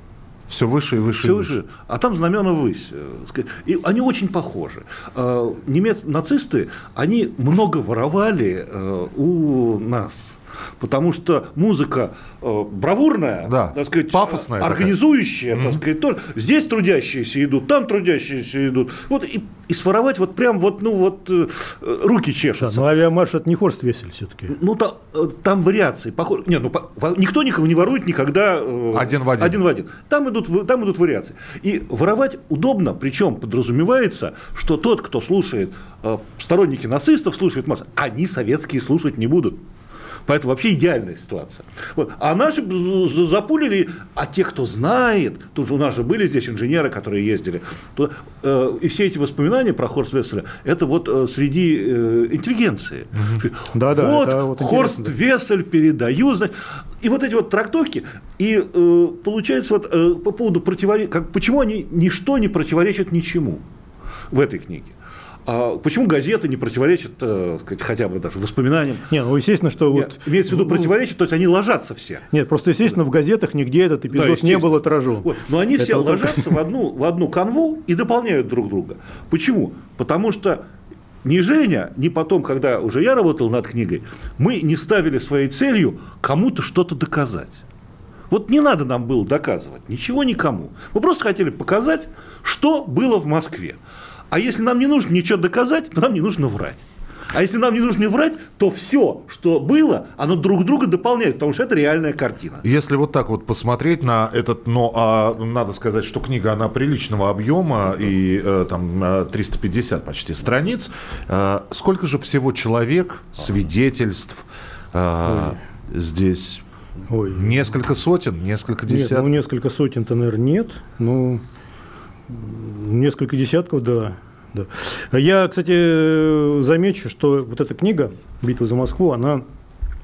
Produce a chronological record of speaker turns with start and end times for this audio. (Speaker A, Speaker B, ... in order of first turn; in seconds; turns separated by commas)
Speaker A: 0.5-1.6, Speaker B: 1.2-22.9, Speaker A: 13.4-15.0, Speaker A: 15.5-15.8, Speaker C: 22.6-24.5, Speaker B: 24.5-39.6, Speaker A: 28.9-29.6, Speaker B: 40.3-63.6, Speaker A: 53.1-53.4, Speaker C: 53.7-55.1, Speaker B: 64.3-64.9, Speaker B: 65.5-69.1, Speaker C: 69.1-70.9, Speaker B: 69.9-72.3, Speaker C: 72.3-76.5, Speaker B: 74.1-80.6, Speaker B: 81.2-87.6, Speaker B: 88.3-93.8, Speaker B: 94.3-102.6, Speaker A: 102.6-116.6, Speaker C: 117.1-117.7, Speaker A: 117.3-119.3, Speaker C: 118.9-121.4, Speaker C: 122.3-129.4